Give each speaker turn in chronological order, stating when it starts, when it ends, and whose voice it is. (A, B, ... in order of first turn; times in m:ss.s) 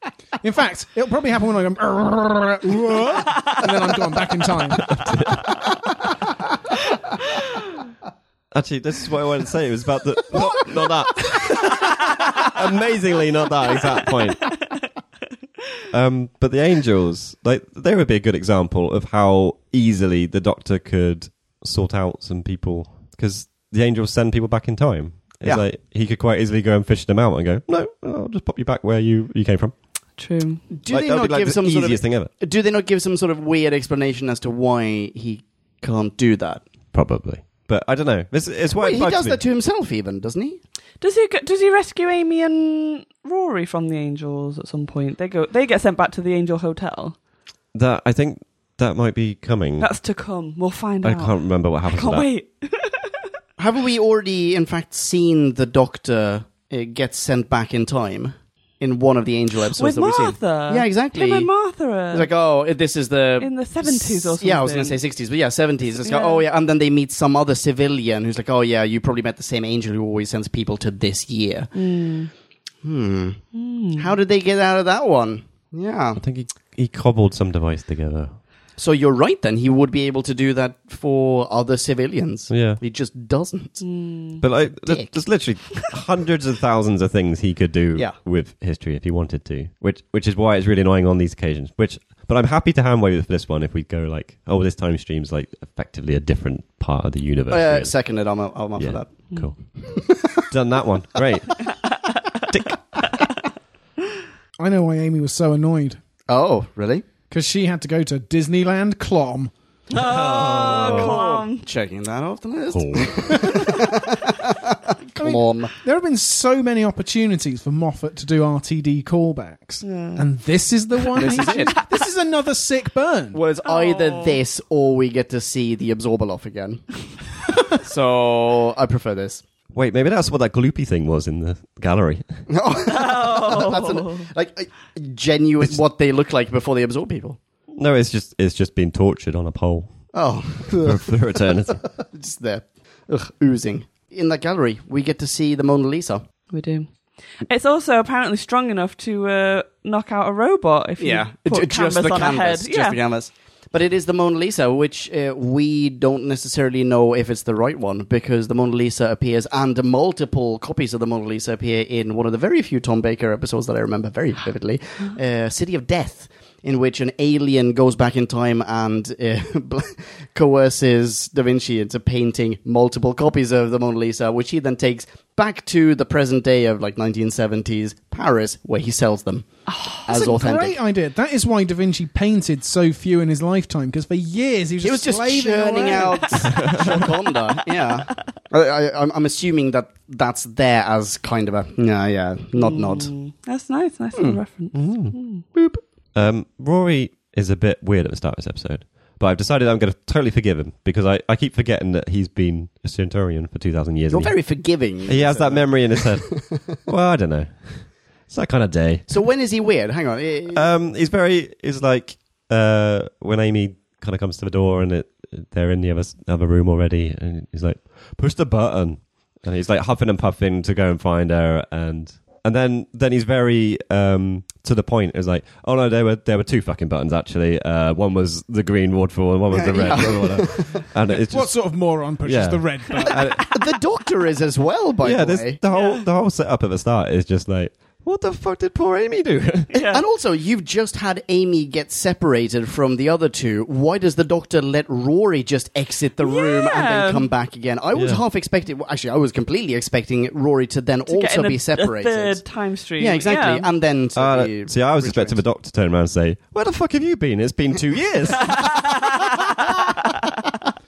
0:00.4-0:05.0 A
0:04.7-0:05.6 B
0:08.5-0:14.6 B
0:13.9-0:14.5 C
0:15.9-0:29.8 B
0:30.2-0:30.7 C
0:30.7-0:36.6 D
0:30.9-0:32.3 B
0:36.9-0:39.4 B
0:38.8-0:40.6 D
0:41.0-0:47.2 C
0:47.7-0:49.9 B
0:49.8-0:53.2 C
0:51.0-0:52.3 B
0:53.6-1:01.5 D
0:59.8-1:02.3 C
1:02.1-1:11.7 D
1:03.4-1:05.0 C
1:06.0-1:06.4 C
1:11.7-1:12.3 C
1:12.8-1:13.4 D
1:13.5-1:14.1 C
1:14.0-1:16.2 D
1:16.2-1:18.4 B
1:18.8-1:23.8 D
1:22.5-1:22.8 B
1:23.8-1:24.4 C
1:24.4-1:38.0 B
1:24.8-1:25.2 D
1:37.5-1:39.3 D
1:38.8-1:41.8 B
1:39.8-1:40.5 D
1:44.6-1:46.0 A
1:46.3-1:47.1 D
1:47.3-1:49.5 A
1:49.9-1:51.7 C
1:50.0-1:51.2 B
1:50.6-1:55.7 D
1:52.7-1:53.4 B
1:55.2-2:03.4 A
1:59.8-2:00.3 C
2:01.0-2:01.7 C
2:01.2-2:01.7 D
2:03.3-2:06.9 D
2:03.6-2:04.4 C
2:07.7-2:09.4 D
2:09.7-2:12.3 B
2:12.5-2:17.4 D
2:12.9-2:14.3 C
2:17.7-2:20.1 B
2:20.1-2:21.2 D
2:20.7-2:21.9 B
2:21.7-2:26.2 D
2:26.5-2:26.9 C
2:27.4-2:33.0 C
2:31.0-3:00.8 D
2:59.7-3:00.1 C
3:00.1-3:06.3 A
3:04.8-3:13.1 D
3:06.3-3:06.8 C
3:06.5-3:07.0 B
3:12.6-3:15.6 C
3:14.2-3:14.4 D
3:14.7-3:15.2 B
3:16.1-3:29.1 B
3:24.1-3:26.7 D
3:29.1-3:30.6 D
3:30.5-3:53.5 B
3:49.5-3:50.8 D
3:51.2-3:53.4 A
3:53.1-3:55.6 D
3:55.0-3:59.7 B
3:55.7-3:56.0 C
3:59.7-4:00.0 C
3:59.8-4:12.4 D
4:06.2-4:07.3 C
4:07.9-4:08.2 B
4:11.1-4:13.7 C
4:13.0-4:15.4 D
4:14.2-4:19.0 B
4:18.5-4:19.5 C